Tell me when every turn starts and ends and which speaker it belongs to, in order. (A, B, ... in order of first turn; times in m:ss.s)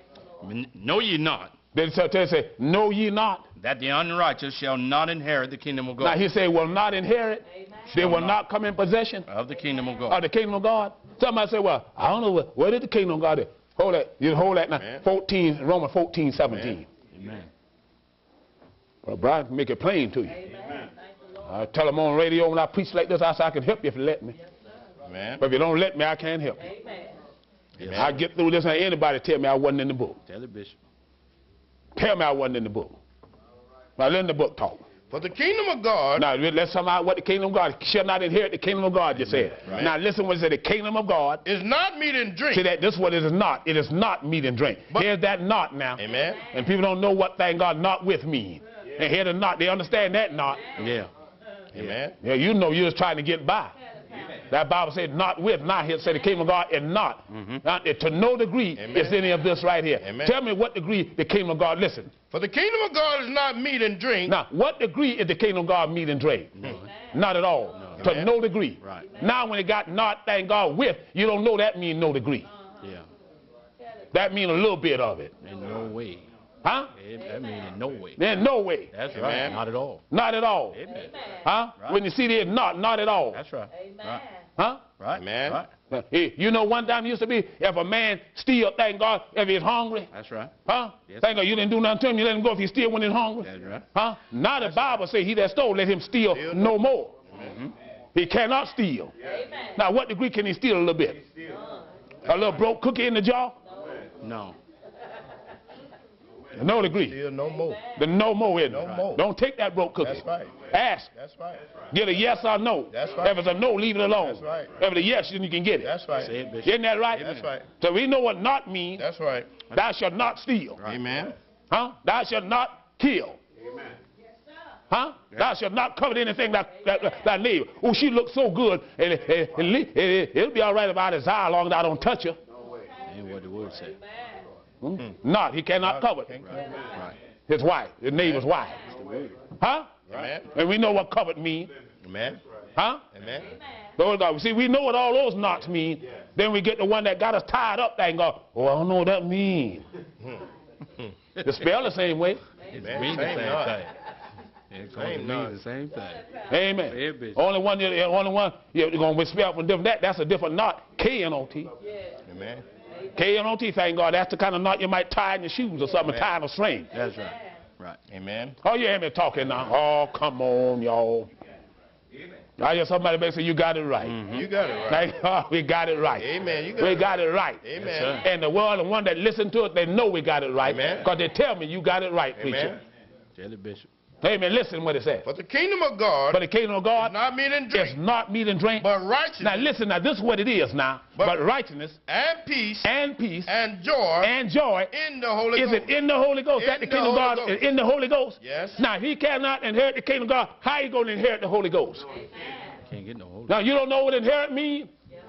0:00.4-0:01.5 A
0:01.7-0:03.4 B
0:03.6-0:06.2 A
0:06.0-0:09.3 B
0:07.9-0:08.4 A
0:09.3-0:10.2 A
0:10.1-0:16.9 B
0:14.8-0:15.0 C
0:16.5-0:16.8 C
0:17.1-0:17.5 A
0:19.0-0:20.4 B
0:21.4-0:24.4 B
0:25.0-0:25.4 C
0:25.4-0:26.7 B
0:27.8-0:28.2 A
0:27.8-0:30.2 B
0:30.2-0:30.8 A
0:32.0-0:33.0 B
0:34.0-0:34.8 B
0:35.1-0:36.2 C
0:36.2-0:41.4 B
0:39.6-0:39.9 C
0:41.4-0:42.7 C
0:42.5-0:50.6 B
0:46.0-0:46.4 C
0:50.8-0:51.1 A
0:51.7-0:52.2 C
0:52.2-0:53.8 B
0:54.5-1:02.1 B
0:57.3-0:57.6 A
0:58.8-0:59.2 C
1:00.0-1:00.3 C
1:02.3-1:04.3 C
1:04.2-1:06.5 B
1:06.6-1:06.9 A
1:07.1-1:12.5 B
1:07.7-1:08.1 A
1:08.0-1:08.3 C
1:08.8-1:09.1 A
1:14.1-1:15.3 B
1:15.4-1:16.2 A
1:16.6-1:16.9 B
1:16.9-1:18.2 A
1:18.2-1:18.9 B
1:18.9-1:20.0 A
1:19.1-1:19.6 C
1:20.1-1:20.8 B
1:20.7-1:21.2 A
1:21.4-1:23.4 B
1:23.3-1:24.2 A
1:24.6-1:24.8 B
1:25.0-1:25.7 A
1:25.1-1:25.6 C
1:25.9-1:30.1 B
1:30.1-1:30.5 A
1:30.6-1:37.1 B
1:33.4-1:33.8 A
1:34.6-1:35.0 C
1:36.3-1:36.8 C
1:37.4-1:37.7 A
1:38.1-1:39.1 B
1:39.8-1:41.2 B
1:42.2-1:43.6 B
1:44.2-1:44.6 A
1:46.6-1:47.2 B
1:46.6-1:47.8 C
1:47.9-1:51.1 B
1:48.7-1:49.2 C
1:48.8-1:49.0 A
1:50.0-1:50.5 C
1:51.1-1:51.6 C
1:51.9-1:55.9 B
1:52.9-1:53.4 C
1:54.2-1:54.7 C
1:55.8-1:56.4 C
1:56.1-1:57.5 A
1:56.6-1:59.0 B
1:57.1-1:57.7 C
1:59.0-1:59.5 C
1:59.7-2:00.8 B
2:00.8-2:01.3 C
2:01.7-2:03.4 B
2:04.9-2:12.4 B
2:13.1-2:14.0 A
2:14.8-2:16.3 B
2:15.8-2:16.8 C
2:16.4-2:17.2 A
2:17.5-2:18.8 B
2:18.2-2:18.5 C
2:18.8-2:19.4 A
2:19.6-2:21.7 B
2:20.1-2:20.5 C
2:22.0-2:22.4 C
2:22.8-2:23.0 B
2:23.1-2:23.5 C
2:24.0-2:29.8 B
2:31.4-2:32.4 B
2:32.7-2:33.9 A
2:32.7-2:33.8 C
2:34.7-2:36.2 A
2:34.9-2:35.6 C
2:36.5-2:41.7 B
2:36.9-2:37.4 A
2:42.2-2:42.6 C
2:43.2-2:46.9 B
2:46.0-2:46.3 C
2:46.9-2:48.0 A
2:48.1-2:48.6 C
2:48.6-2:51.3 B
2:52.6-2:54.2 B
2:54.0-2:54.5 A
2:54.3-2:55.1 C
2:54.9-2:56.3 B
2:56.2-2:58.2 C
2:56.8-3:02.8 B
2:57.8-2:58.2 A
3:00.6-3:01.1 C
3:02.4-3:02.8 C
3:03.4-3:03.9 A
3:04.2-3:05.3 B
3:05.2-3:06.4 C
3:06.3-3:07.2 B
3:07.0-3:08.0 C
3:07.7-3:08.9 B
3:08.8-3:09.7 C
3:09.4-3:12.0 B
3:11.2-3:11.4 C
3:12.1-3:12.9 C
3:12.8-3:13.5 B
3:13.4-3:14.3 C
3:14.2-3:14.9 B
3:14.9-3:16.0 C
3:15.6-3:22.1 B
3:16.6-3:17.7 C
3:18.4-3:18.8 C
3:22.9-3:23.6 A
3:23.5-3:24.9 B